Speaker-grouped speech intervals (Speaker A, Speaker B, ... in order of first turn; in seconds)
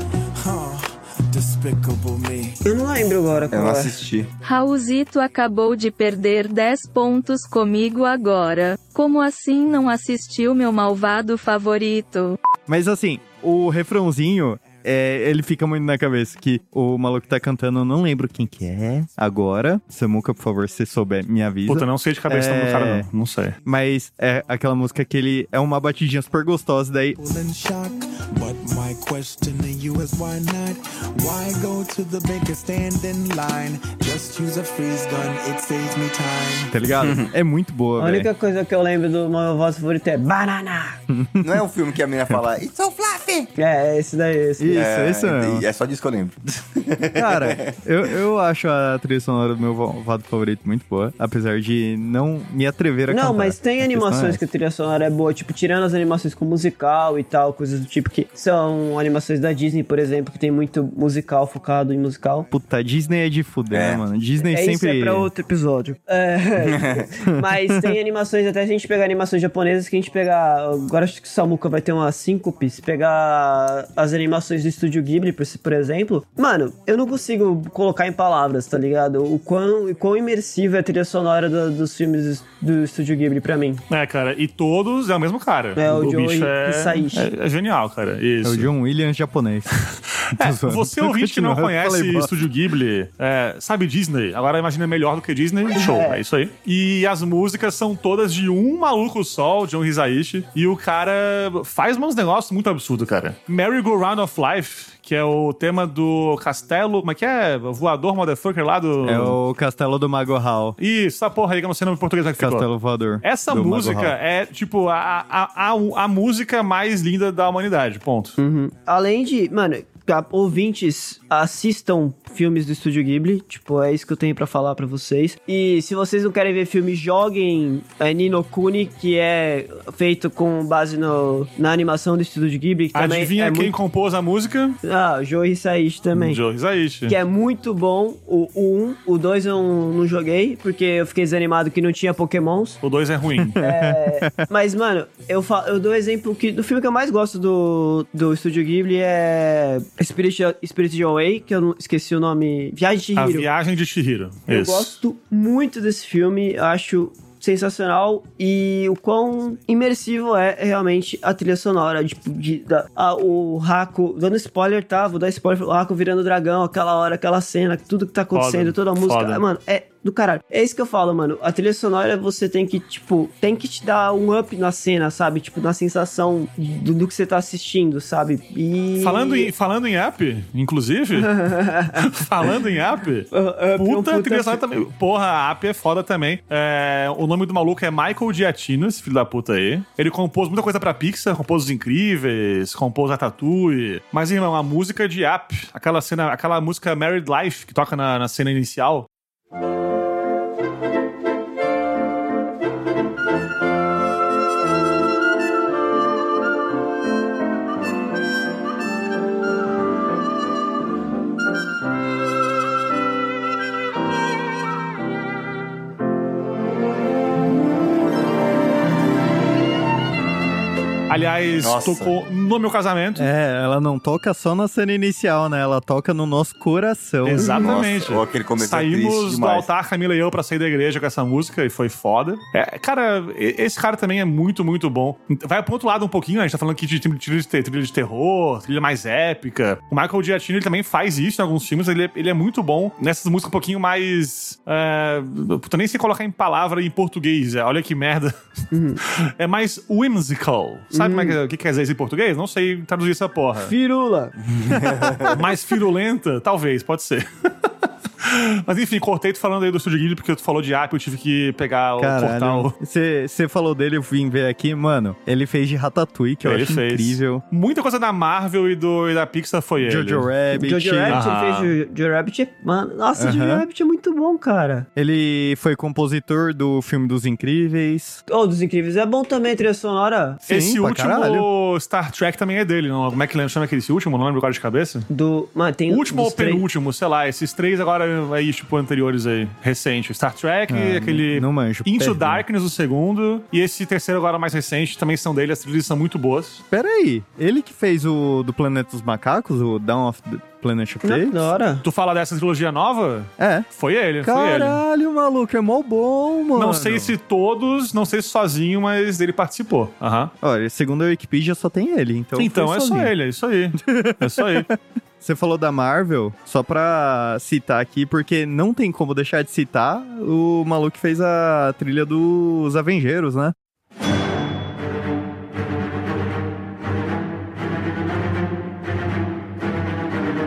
Speaker A: 0.4-2.6, 27.2-36.7
Speaker B: 2.6-4.0, 38.0-41.0, 43.5-44.9, 53.1-62.5, 64.4-83.8, 85.8-87.3, 95.7-96.2, 118.4-133.7, 134.8-136.4, 137.1-142.8, 143.6-153.5, 154.5-179.5, 181.2-182.1, 183.3-184.6, 248.7-249.0, 250.9-251.4, 253.6-254.3, 270.5-274.9, 278.3-280.4, 285.1-286.6, 301.0-301.8
Speaker C: 3.5-4.3, 41.4-43.5, 44.7-47.8, 63.7-64.0, 66.7-67.1, 221.6-222.1, 227.6-229.7, 254.5-255.4
Speaker D: 4.4-12.4
Speaker E: 12.7-23.1, 23.6-27.2, 36.7-38.3, 41.1-41.6, 44.6-45.6, 47.1-54.4, 62.5-65.3, 67.5-67.9, 88.4-89.7, 90.4-92.3, 109.0-110.8, 112.4-114.1, 143.4-144.4, 223.2-227.6, 262.0-267.4, 269.8-271.2, 273.2-273.6, 274.9-278.2, 280.5-281.5, 290.7-292.4, 296.7-301.5, 303.4-303.7, 304.2-307.1, 310.4-313.1, 313.8-323.5
Speaker F: 21.7-23.6, 83.9-88.7, 89.8-109.4, 110.8-112.7, 113.2-118.4, 132.9-134.8, 136.1-137.2, 142.8-143.6, 153.2-155.0, 168.3-169.4, 179.0-181.4, 182.0-199.1, 221.1-223.3, 227.2-248.3, 249.0-253.7, 255.3-257.7, 258.2-262.7, 266.4-270.3, 271.1-271.7, 280.5-285.1, 285.9-296.6, 301.8-304.8, 306.6-310.3, 312.4-314.7